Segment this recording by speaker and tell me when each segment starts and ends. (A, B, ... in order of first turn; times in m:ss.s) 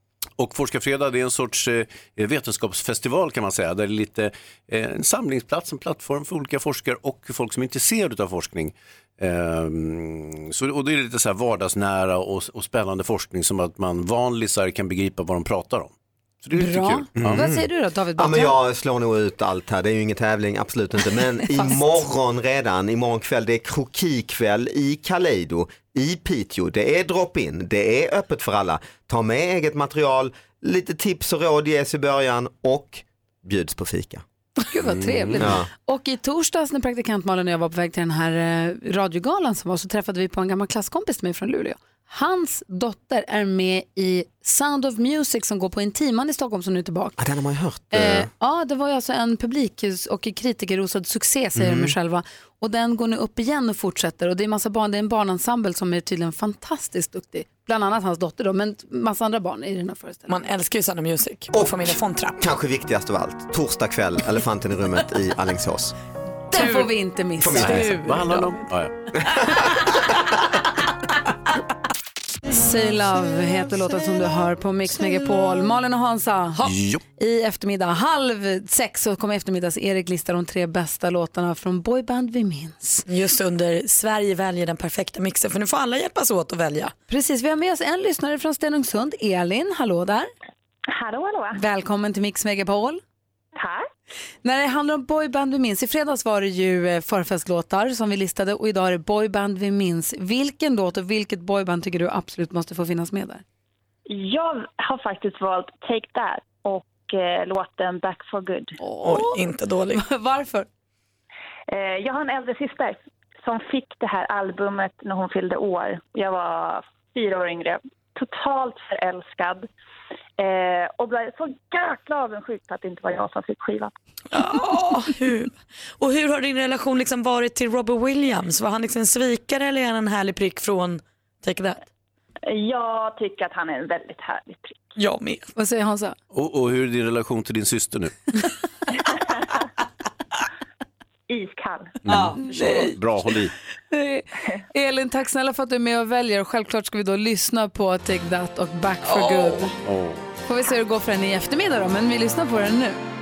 0:00.4-0:17.4 A
0:16.5-0:18.6 B
0:17.2-0:34.2 C
0:21.5-0:22.0 B
0:34.6-0:47.2 B
0:34.8-0:35.6 A
0:35.4-0:35.7 C
0:47.2-0:48.3 C
0:47.9-1:00.4 B
0:51.5-0:52.0 C
1:00.3-1:02.4 D
1:01.5-1:05.9 C
1:06.5-1:08.6 B
1:06.5-1:06.9 D
1:07.4-1:07.9 C
1:07.6-1:08.9 A
1:12.5-1:16.6 B
1:16.6-1:17.0 A
1:17.2-1:23.0 B
1:23.1-1:26.9 D
1:27.1-1:30.3 B
1:30.9-1:31.6 E
1:31.5-1:33.0 B
1:33.6-1:33.8 E
1:34.4-1:43.4 B
1:44.1-1:48.8 E
1:48.8-1:49.4 B
1:49.0-1:50.0 D
1:49.9-1:50.7 B
1:51.7-1:59.7 E
2:00.4-2:03.9 E
2:04.3-2:11.8 D
2:12.5-2:14.9 E
2:15.0-2:15.5 D
2:15.6-2:16.2 B
2:16.3-2:18.1 A
2:21.3-2:22.0 E
2:22.1-2:23.0 D
2:22.1-2:23.5 A
2:22.5-2:22.9 B
2:23.9-2:29.7 B
2:29.1-2:29.7 D
2:29.8-2:30.2 A
2:30.5-2:33.0 B